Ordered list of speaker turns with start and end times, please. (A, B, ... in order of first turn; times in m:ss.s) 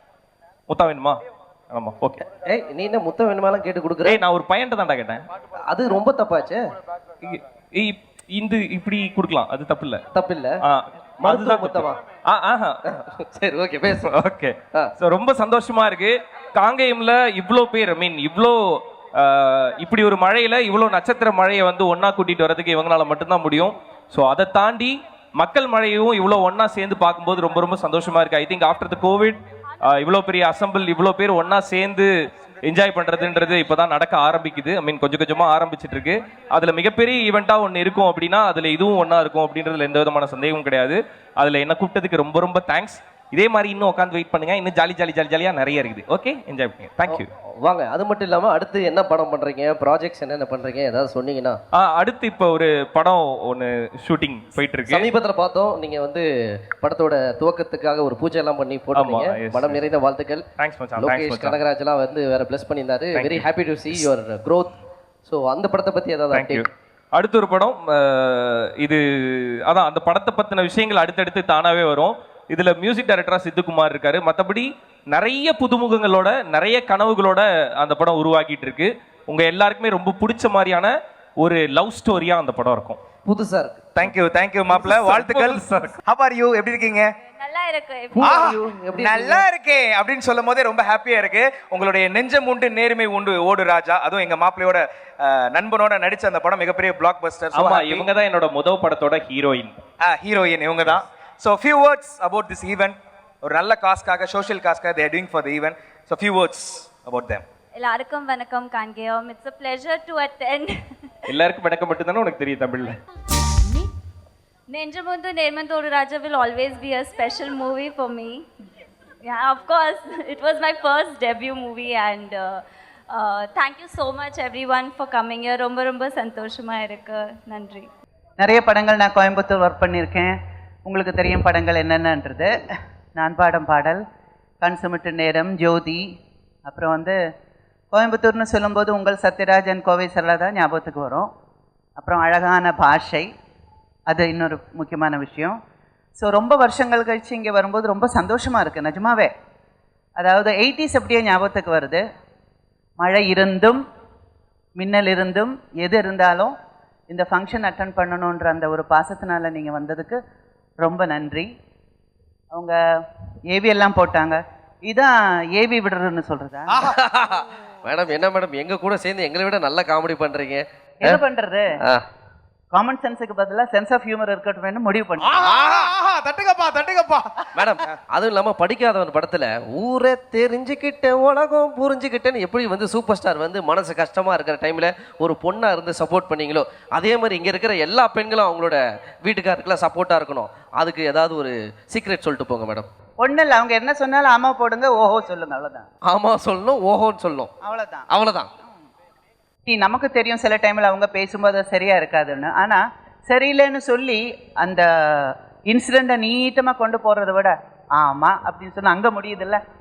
0:00.7-0:01.2 A
0:01.7-0:02.2 A
0:02.2-0:04.2 B
0:04.0-0:05.2 A
0:05.7-0:06.6 B
0:07.2-0:10.0 A
0:10.1-0:10.5 B
0:10.6-0:12.8 A
0:11.2-0:12.0 B
0:12.9-0:14.1 B
0:14.0-0:18.6 A
0:19.2-0:32.1 A
0:32.6-0:47.3 A
0:47.1-0:51.6 B
0:51.7-0:55.1 A
0:54.9-0:56.3 B
0:56.8-1:00.5 B
0:58.9-0:59.8 A
1:00.6-1:01.6 A
1:01.0-1:04.8 B
1:03.1-1:04.1 A
1:05.3-1:06.7 B
1:06.3-1:23.0 A
1:23.2-1:23.8 B
1:24.0-1:27.1 C
1:24.7-1:26.0 A
1:27.4-1:28.4 D
1:28.2-1:29.4 B
1:28.2-1:38.0 C
1:37.5-1:39.8 A
1:40.0-1:47.4 C
1:47.8-1:50.9 D
1:51.3-1:53.0 A
1:54.7-1:58.5 D
1:59.2-2:07.9 D
2:08.4-2:10.4 E
2:10.9-2:12.5 E
2:13.2-2:14.0 E
2:14.6-2:16.0 E
2:16.7-2:17.2 E
2:17.9-2:21.3 E
2:22.0-2:23.3 E
2:24.1-2:25.6 E
2:26.2-2:29.3 E
2:30.2-2:32.0 E
2:33.0-2:33.8 E
2:34.8-2:36.5 E
2:37.1-2:40.2 E
2:40.8-2:41.5 E
2:42.5-2:42.8 E
2:43.5-2:46.9 E
2:46.8-2:51.2 B
2:51.0-2:51.7 E
2:52.7-2:56.8 E
2:57.6-3:12.9 B
3:13.2-3:15.9 E
3:16.1-3:17.5 B
3:17.6-3:18.1 E
3:18.1-3:18.5 B
3:19.7-3:29.6 E